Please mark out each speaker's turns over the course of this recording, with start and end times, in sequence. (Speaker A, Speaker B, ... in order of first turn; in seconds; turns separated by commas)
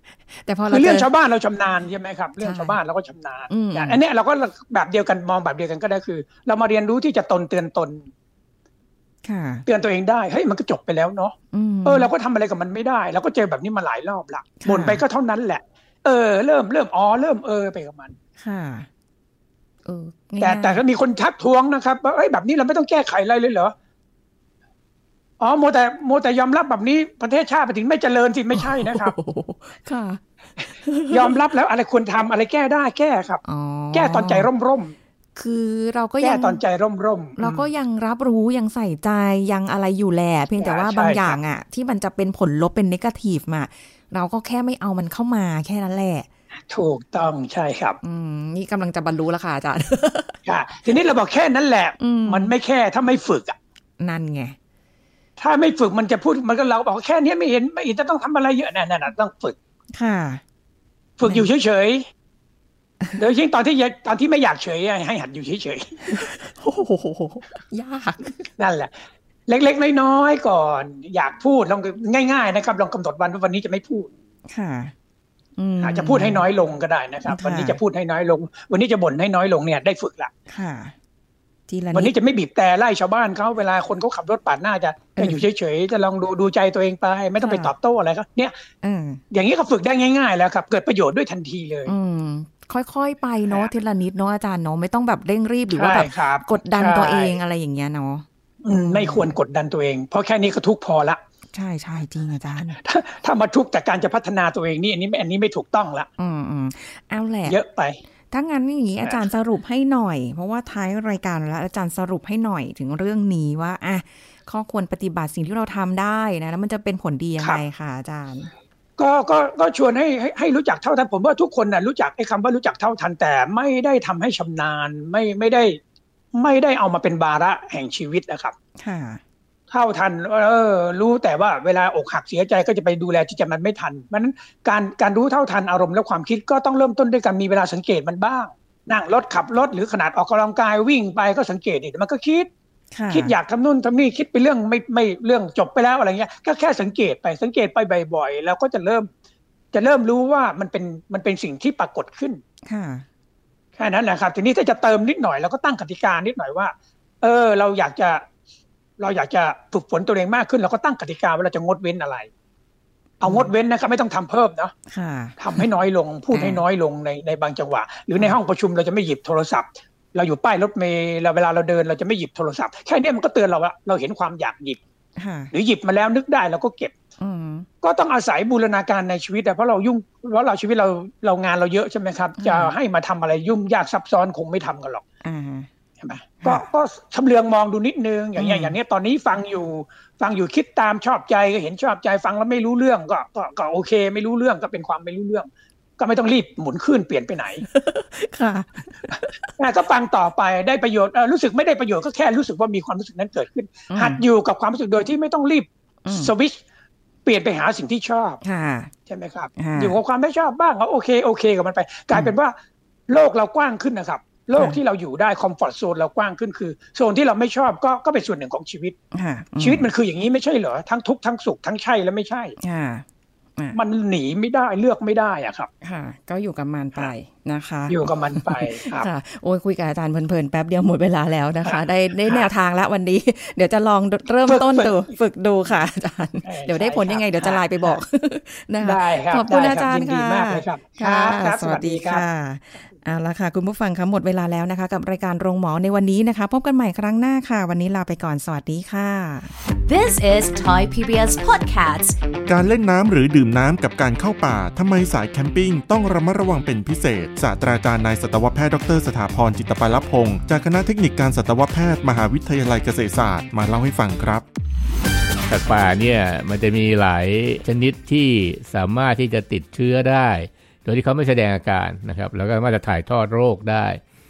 Speaker A: 0.4-1.1, Speaker B: 0.7-8.1, Speaker A: 2.4-2.8, Speaker A: 3.5-4.0, Speaker A: 9.2-9.6, Speaker B: 9.7-18.1, Speaker A: 11.5-12.1, Speaker A: 14.6-15.0, Speaker A: 18.4-18.9, Speaker A: 19.8-20.8, Speaker B: 20.4-23.7, Speaker B: 25.4-29.1, Speaker A: 28.5-30.2, Speaker A: 30.8-31.3, Speaker B: 31.1-33.4, Speaker A: 33.4-34.5, Speaker B: 33.9-34.9, Speaker A: 35.4-36.6, Speaker B: 36.2-37.7, Speaker A: 37.4-46.3, Speaker B: 40.6-41.4, Speaker B: 46.7-48.0, Speaker A: 48.0-50.4, Speaker B: 50.5-53.6, Speaker A: 52.0-52.5, Speaker A: 54.0-54.5, Speaker B: 55.4-59.5, Speaker A: 59.9-60.4, Speaker B: 61.2-62.0, Speaker B: 63.2-66.2, Speaker A: 66.1-68.5, Speaker B: 68.6-68.9, Speaker B: 69.5-74.1, Speaker A: 74.5-74.9, Speaker A: 75.6-76.5, Speaker B: 75.8-80.3, Speaker A: 77.3-77.8, Speaker A: 80.5-80.9, Speaker A: 81.7-82.1, Speaker B: 81.9-88.5, Speaker A: 85.2-85.4, Speaker A: 87.4-87.7, Speaker A: 88.8-89.2, Speaker B: 89.3-91.9, Speaker A: 91.8-99.3, Speaker B: 95.7-97.4, Speaker B: 98.6-101.2, Speaker A: 101.5-102.8, Speaker B: 102.8-106.1, Speaker A: 106.2-107.6, Speaker B: 107.5-108.0, Speaker A: 108.3-118.5, Speaker B: 119.0-125.8, Speaker B: 126.3-128.5, Speaker A: 128.8-129.2, Speaker B: 129.7-142.5, Speaker A: 142.9-143.3, Speaker B: 143.1-149.1, Speaker B: 149.7-152.4, Speaker A: 152.6-153.1, Speaker B: 153.8-158.2, Speaker B: 159.0-162.3, Speaker B: 163.2-164.7, Speaker A: 163.2-163.5, Speaker A: 164.9-165.7, Speaker B: 165.4-174.8, Speaker A: 166.3-166.6, Speaker A: 175.2-175.5, Speaker B: 175.5-176.9, Speaker A: 177.2-177.7, Speaker B: 177.8-185.0, Speaker A: 182.4-182.7, Speaker A: 185.2-185.7, Speaker B: 186.0-197.6, Speaker A: 186.4-186.7, Speaker A: 188.4-188.8, Speaker A: 197.7-199.5, Speaker B: 199.6-206.6, Speaker A: 203.9-204.2, Speaker A: 206.0-206.3, Speaker B: 207.2-208.4, Speaker A: 208.4-208.9, Speaker B: 209.1-212.6, Speaker A: 209.6-210.0, Speaker B: 213.1-218.9, Speaker A: 219.1-219.9, Speaker B: 219.6-222.6, Speaker A: 222.6-223.0, Speaker B: 223.7-225.7, Speaker A: 225.8-249.5, Speaker B: 227.9-229.1, Speaker B: 231.6-232.5, Speaker B: 234.4-235.1, Speaker B: 236.4-238.0, Speaker B: 238.8-242.2, Speaker C: 249.8-252.2, Speaker D: 252.5-264.4, Speaker E: 265.5-274.0